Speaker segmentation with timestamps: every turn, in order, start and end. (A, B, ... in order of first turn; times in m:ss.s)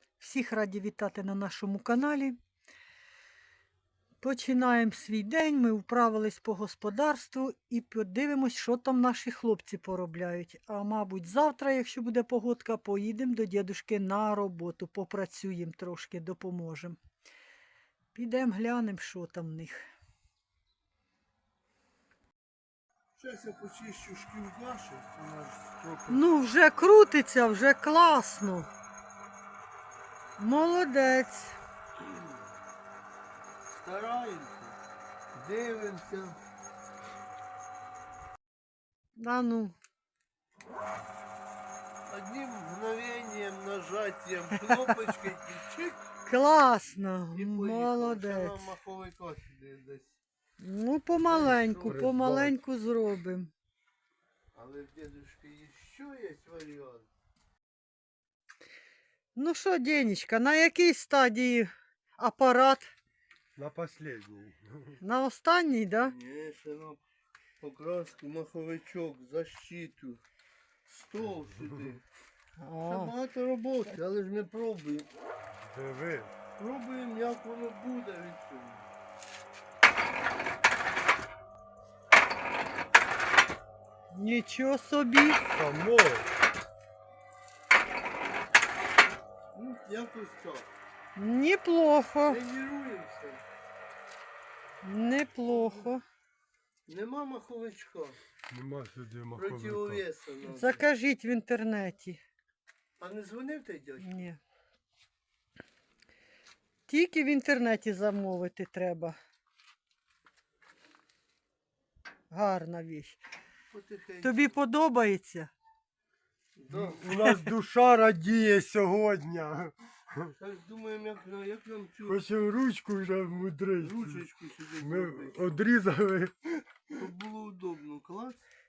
0:00.2-0:02.4 A
0:04.2-0:17.0 A
0:18.1-0:19.8 A
0:23.2-0:26.2 B
0:26.1-0:28.7 A
0:30.4-0:31.6 A
0:33.7-0:34.8 B
0:35.3-0:36.4 B
0:39.2-0:39.8 A
0:42.1-0:46.0 B
0:46.2-0:48.7 A
0:47.3-0:50.2 B
0:50.6-0:53.5 A
0:51.3-0:52.0 B
0:51.8-0:52.6 C
0:54.5-0:57.1 B
0:59.3-1:02.9 A
1:03.6-1:05.0 C
1:05.0-1:06.1 A
1:06.1-1:07.0 B
1:07.6-1:10.2 B
1:10.9-1:12.0 B
1:12.6-1:13.1 A
1:12.8-1:15.1 B
1:15.7-1:16.3 C
1:16.6-1:18.8 B
1:24.1-1:25.4 A
1:25.5-1:26.3 C
1:29.5-1:30.7 B
1:31.2-1:32.4 A
1:32.2-1:33.4 B
1:34.8-1:36.0 A
1:35.5-1:35.9 B
1:36.9-1:38.2 B
1:38.5-1:40.0 C
1:39.3-1:40.8 B
1:40.4-1:42.2 A
1:43.0-1:44.2 B
1:44.0-1:44.4 A
1:46.9-1:49.2 A
1:52.3-1:53.2 A
1:53.7-1:54.5 B
1:54.2-1:55.5 A
1:56.6-1:57.0 B
1:56.7-2:00.3 C
2:00.4-2:02.2 B
2:02.0-2:06.9 C
2:03.8-2:05.6 B
2:07.0-2:08.4 B